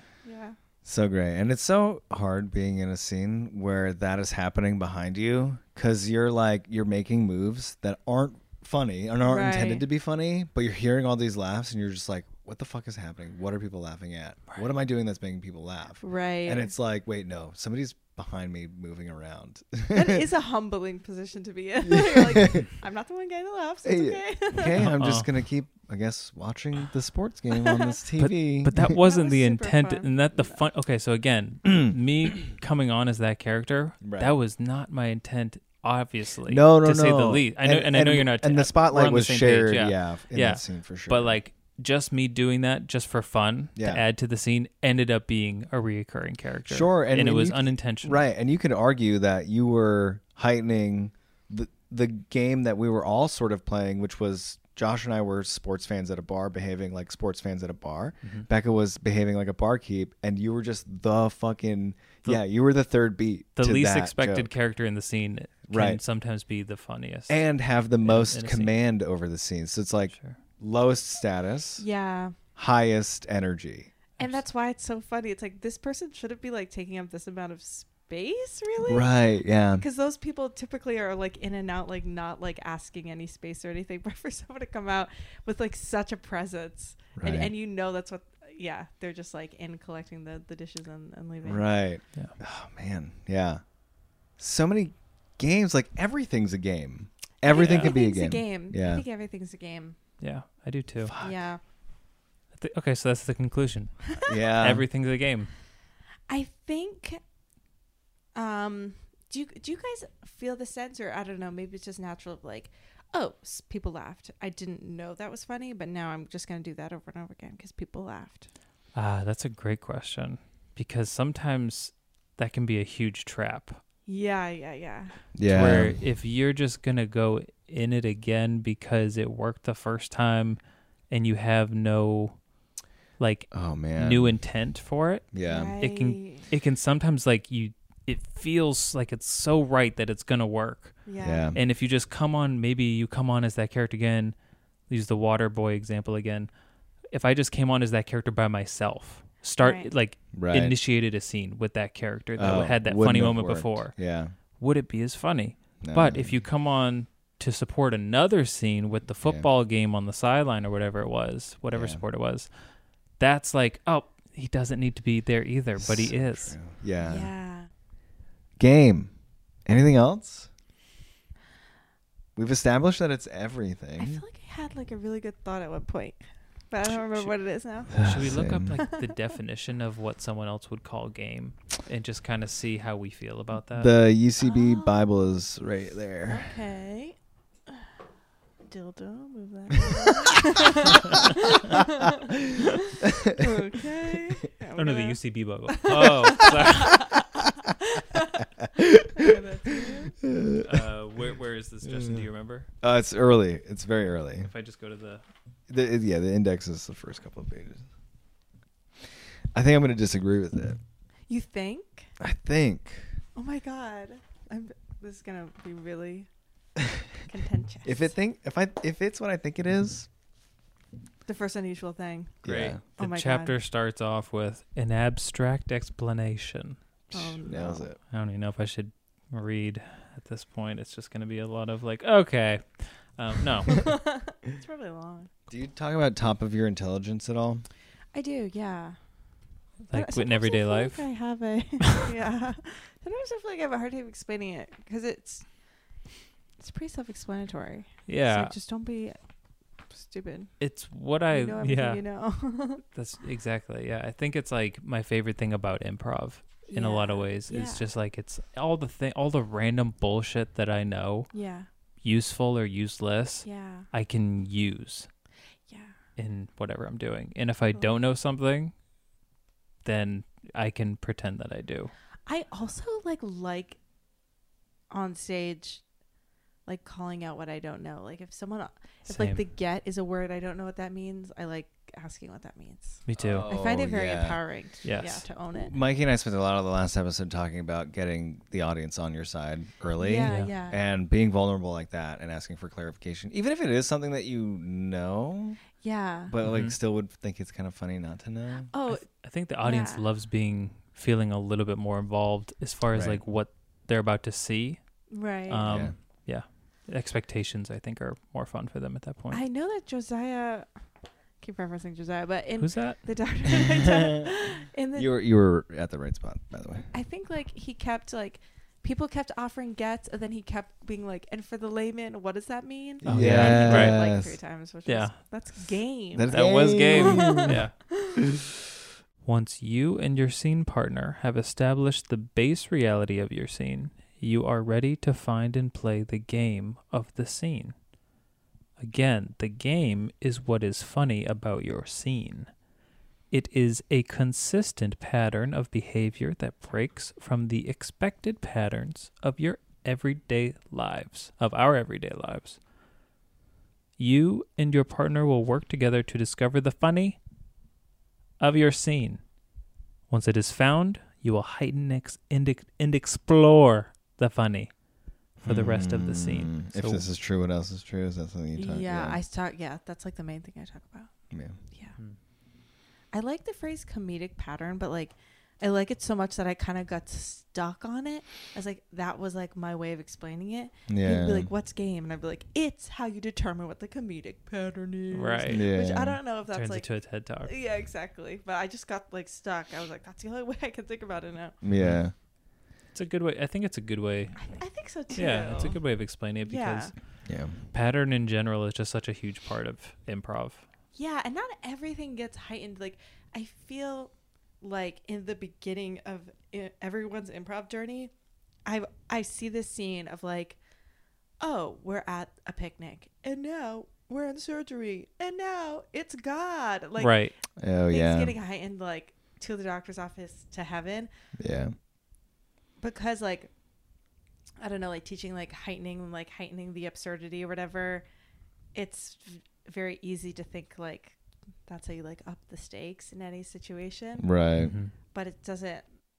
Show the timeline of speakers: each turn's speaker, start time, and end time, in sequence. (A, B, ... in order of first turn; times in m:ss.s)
0:00.2-0:00.6 A
0:00.8-0:20.2 B
0:09.2-0:09.8 A
0:16.0-0:16.7 A
0:19.9-0:24.8 A
0:21.8-0:22.7 B
0:23.8-0:28.9 B
0:24.8-0:25.3 C
0:27.5-0:28.0 A
0:28.2-0:48.2 C
0:28.8-0:30.6 A
0:31.7-0:31.9 B
0:34.0-0:34.3 B
0:36.5-0:41.4 B
0:43.8-0:44.0 B
0:46.7-1:04.5 B
1:03.6-1:07.4 C
1:05.7-1:06.0 B
1:07.3-1:11.8 B
1:08.0-1:08.7 C
1:11.8-1:12.4 A
1:12.6-1:13.9 B
1:14.2-1:19.1 A
1:18.8-1:19.8 B
1:19.8-1:31.7 A
1:27.2-1:27.5 B
1:31.4-1:33.6 B
1:34.4-1:39.0 B
1:37.5-1:40.0 A
1:37.5-1:37.9 C
1:40.2-1:41.1 C
1:41.0-1:41.4 B
1:41.2-1:41.6 A
1:42.5-1:45.5 C
1:44.2-1:44.9 B
1:46.3-1:47.2 A
1:48.3-1:58.5 A
1:58.9-2:03.8 C
2:04.1-2:05.2 A
2:05.3-2:06.0 B
2:05.4-2:10.6 C
2:11.1-2:12.4 C
2:13.2-2:24.3 C
2:13.5-2:14.4 B
2:15.3-2:15.8 B
2:15.4-2:16.5 A
2:21.0-2:21.5 A
2:21.2-2:21.6 B
2:24.9-2:26.5 C
2:27.1-2:34.0 C
2:29.6-2:29.9 A
2:30.3-2:30.8 B
2:32.4-2:34.3 B
2:34.5-2:42.5 C
2:35.8-2:36.4 B
2:39.2-2:39.5 B
2:41.7-2:42.0 B
2:43.2-2:46.6 C
2:45.8-2:47.3 B
2:47.0-2:47.7 A
2:48.6-2:49.1 B
2:49.6-2:50.5 B
2:52.4-2:54.2 B
2:54.0-2:58.0 A
2:56.8-2:57.3 C
2:57.9-3:03.9 C
2:57.9-2:58.8 B
2:58.8-2:59.1 A
3:03.7-3:06.5 B
3:04.4-3:05.1 A
3:06.3-3:07.2 A
3:08.7-3:12.3 A
3:13.0-3:13.4 B
3:13.3-3:17.2 A
3:14.8-3:17.2 C
3:16.0-3:16.8 B
3:17.9-3:18.4 A
3:18.6-3:19.3 B
3:19.1-3:20.1 A
3:20.2-3:20.9 B
3:20.6-3:22.7 C
3:21.8-3:22.2 B
3:22.8-3:24.5 B
3:24.4-3:25.2 C
3:25.7-3:27.8 B
3:29.5-3:30.8 B
3:31.3-3:32.1 A
3:32.2-3:33.1 B
3:33.4-3:36.3 A
3:37.2-3:38.1 A
3:37.8-3:40.1 B
3:41.2-3:42.4 A
3:42.4-3:42.8 B
3:42.4-3:46.8 C
3:43.0-3:43.6 A
3:47.1-3:47.9 A
3:47.4-3:48.0 B
3:48.1-3:53.9 C
3:53.7-3:55.3 A
3:55.5-3:57.6 B
3:58.1-3:59.0 A
3:59.9-4:01.0 C
3:59.9-4:05.4 A
4:06.6-4:09.2 A
4:08.1-4:08.5 C
4:09.9-4:10.5 A
4:10.6-4:12.0 C
4:11.3-4:12.8 A
4:12.9-4:21.3 C
4:16.7-4:17.8 A
4:21.3-4:21.7 A
4:22.0-4:25.1 C
4:23.4-4:23.9 A
4:25.7-4:25.9 A
4:26.2-4:28.7 C
4:29.8-4:31.9 C
4:32.2-4:33.8 A
4:34.9-4:35.8 A
4:36.6-4:45.7 A
4:39.1-4:39.4 C
4:43.0-4:43.5 C
4:43.2-4:44.4 B
4:44.8-4:45.2 C
4:45.5-4:55.6 B
4:50.0-4:50.8 A
4:50.2-4:50.5 C
4:55.8-4:56.3 A
4:56.3-4:58.7 B
4:56.4-4:56.8 C
4:58.7-4:59.0 A
4:58.9-5:09.4 C
4:59.6-5:00.0 A
5:02.9-5:03.2 B
5:05.1-5:05.7 A
5:05.6-5:05.9 B
5:09.3-5:10.7 A
5:11.4-5:15.1 A
5:12.6-5:13.1 C
5:15.0-5:16.9 B
5:16.9-5:28.2 A
5:23.0-5:24.4 B
5:23.0-5:24.0 C
5:24.8-5:25.3 C
5:26.1-5:27.6 B
5:26.3-5:27.8 C
5:29.2-5:37.7 C
5:38.8-5:42.5 C
5:43.3-5:52.6 C
5:54.0-5:57.2 C
5:58.4-5:59.2 C
6:00.1-6:04.7 C
6:05.4-6:07.0 C
6:05.4-6:09.2 B
6:08.6-6:11.1 A
6:11.3-6:11.6 B
6:13.1-6:26.9 A
6:20.9-6:21.5 B
6:25.1-6:25.7 C
6:25.5-6:26.2 B
6:26.5-6:27.5 C
6:27.4-6:31.6 A
6:31.6-6:32.1 B
6:32.9-6:34.6 C
6:34.4-6:35.8 A
6:35.1-6:37.0 C
6:36.4-6:36.9 A
6:37.2-6:37.6 B
6:37.6-6:40.6 C
6:40.9-6:48.1 A
6:48.6-6:50.6 A
6:51.4-6:57.3 A
6:57.0-6:57.3 C
6:57.6-6:58.3 B
6:57.9-7:01.1 A
7:01.4-7:01.7 B
7:02.8-7:03.5 A
7:04.6-7:08.0 A
7:08.7-7:14.3 A
7:14.2-7:14.7 B
7:14.6-7:14.9 C
7:15.1-7:15.9 A